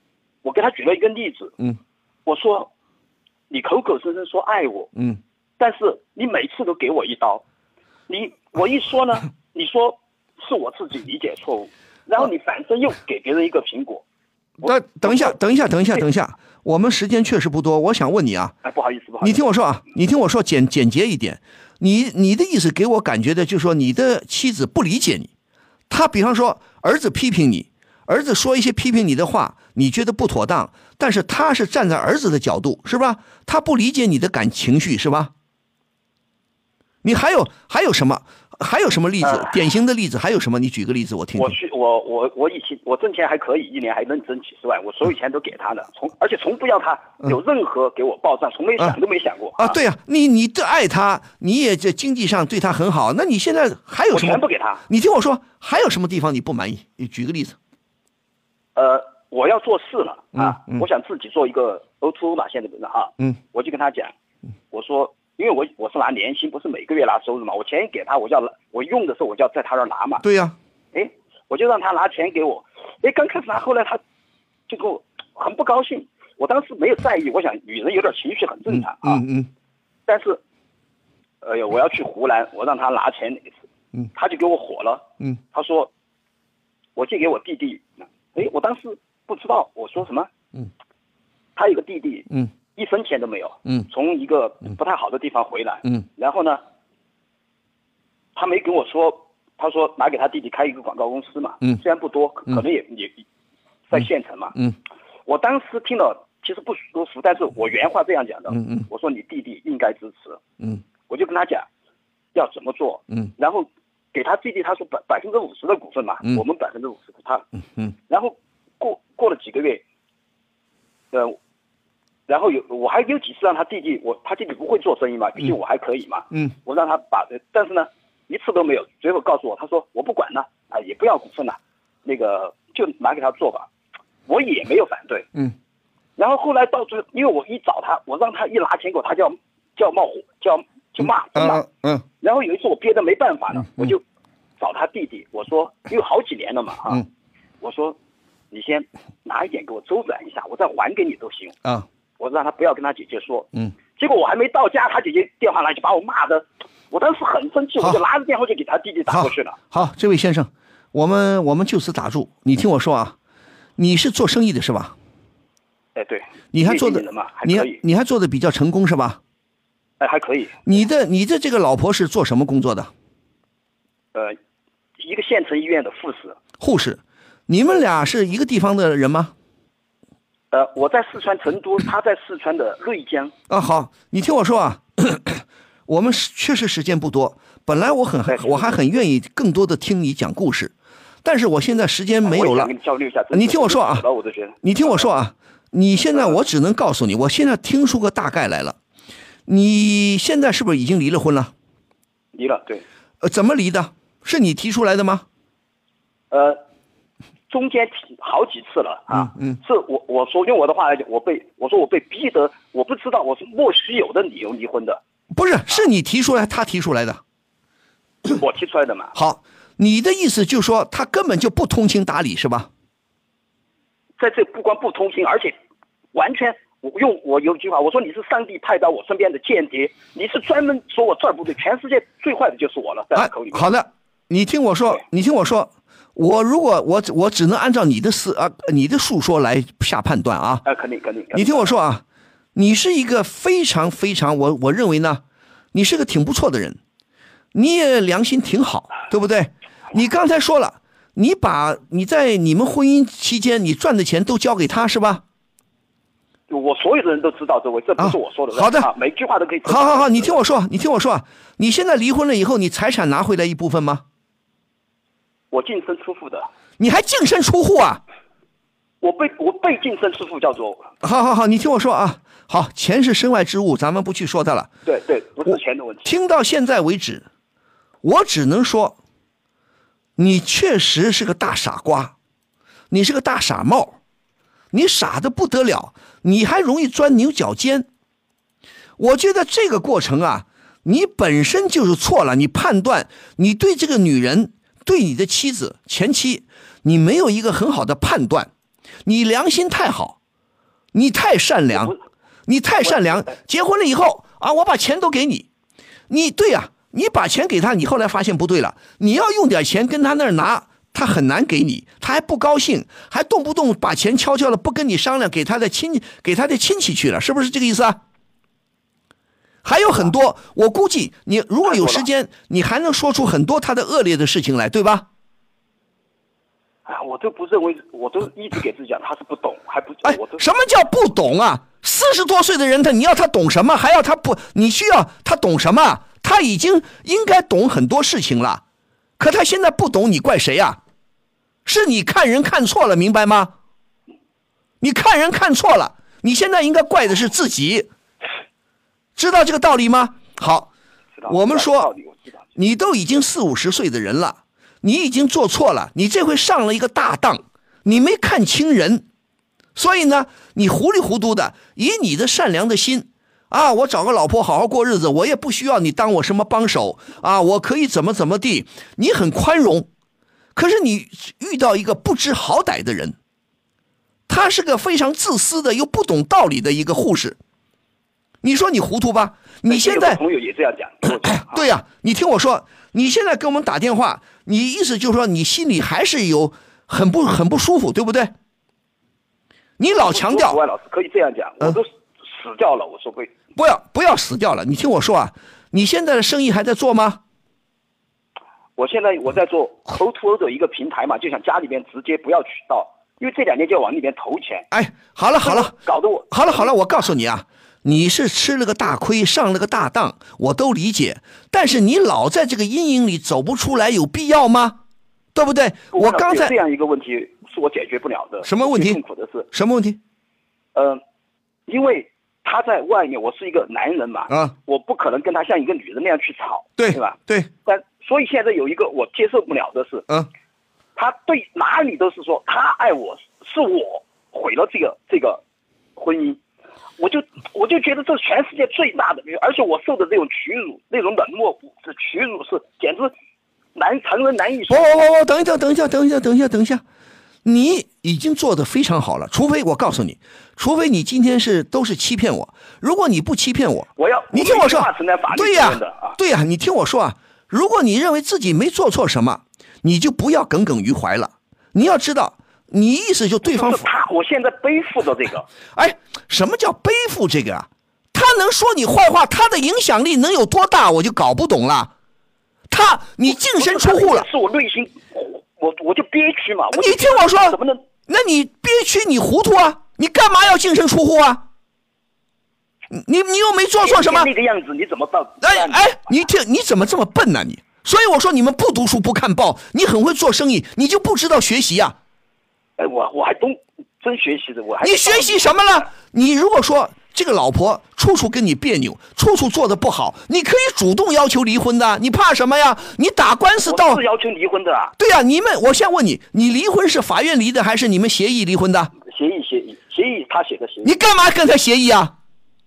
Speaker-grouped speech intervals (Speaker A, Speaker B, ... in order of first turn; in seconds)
Speaker A: 0.4-1.6, 2.3-2.7, 3.5-4.9, 5.6-7.4, 8.1-14.0, 14.6-15.4, 18.6-19.4, 39.2-39.6, 41.4-49.8, 54.1-54.8, 58.8-64.1, 64.7-70.2, 70.9-74.0, 74.7-79.2, 80.1-80.4, 81.4-83.6, 84.1-85.9, 87.0-90.3, 91.6-96.6, 98.3-103.2, 103.9-104.7, 105.3-110.4, 111.1-111.7, 112.3-117.5, 118.1-119.8, 121.1-121.4, 122.3-133.7, 134.3-135.3, 136.2-141.7, 142.2-144.0, 144.6-147.0, 147.6-148.0, 148.5-151.6, 152.2-159.6, 166.0-167.8, 170.0-170.6, 175.0-176.4, 180.5-183.3, 188.3-188.8, 192.2-195.1, 202.3-202.8, 206.3-206.6, 207.5-215.0, 218.3-219.1, 224.2-225.6, 226.1-233.7, 240.7-241.8, 256.5-260.4, 265.5-266.5, 269.0-270.9, 274.9-276.1, 301.7-302.0, 302.8-303.4, 321.6-322.1, 326.9-330.4, 351.2-352.3, 379.7-381.7, 389.9-393.3, 398.8-404.7, 405.4-406.7, 415.9-419.5, 420.8-421.0, 421.7-430.1, 431.0-435.4, 436.0-436.4, 437.0-443.1, 443.8-445.2, 454.0-456.2, 463.4-465.5, 473.3-477.8, 483.8-486.1, 492.8-495.9, 503.6-504.9, 509.1-510.9
Speaker B: 14.6-18.6, 19.2-25.3, 25.9-35.3, 37.0-41.5, 49.6-57.6, 60.4-60.8, 70.2-70.6, 78.7-79.5, 108.5-108.9, 141.0-142.0, 159.1-163.2, 163.8-164.9, 166.5-169.2, 170.7-172.9, 176.6-179.3, 183.5-190.7, 191.2-192.7, 193.3-194.0, 194.6-198.8, 199.5-201.5, 203.2-205.2, 209.1-209.6, 215.3-217.2, 219.1-222.7, 233.1-240.7, 241.3-242.0, 242.6-246.8, 247.5-255.2, 258.0-258.9, 259.6-264.0, 266.8-268.0, 271.0-274.7, 276.1-277.3, 278.0-279.0, 280.2-282.1, 282.9-284.0, 284.7-287.9, 289.0-298.5, 299.1-300.2, 300.9-301.9, 302.5-305.5, 306.1-318.0, 319.6-325.1, 330.0-338.6, 339.2-340.8, 341.6-343.5, 344.8-347.9, 349.2-350.7, 351.3-351.9, 352.6-359.1, 359.8-369.9, 370.6-373.2, 374.3-377.4, 378.4-380.2, 381.1-388.3, 389.8-390.6, 393.6-397.2, 404.7-405.8, 406.3-414.8, 415.4-416.6, 418.4-419.0, 419.5-420.0, 426.8-427.5, 444.7-446.8, 447.4-463.9, 465.7-471.9, 472.7-474.3, 476.7-481.5, 482.9-484.3, 485.4-492.0, 494.8-504.0, 505.0-508.9, 510.8-512.1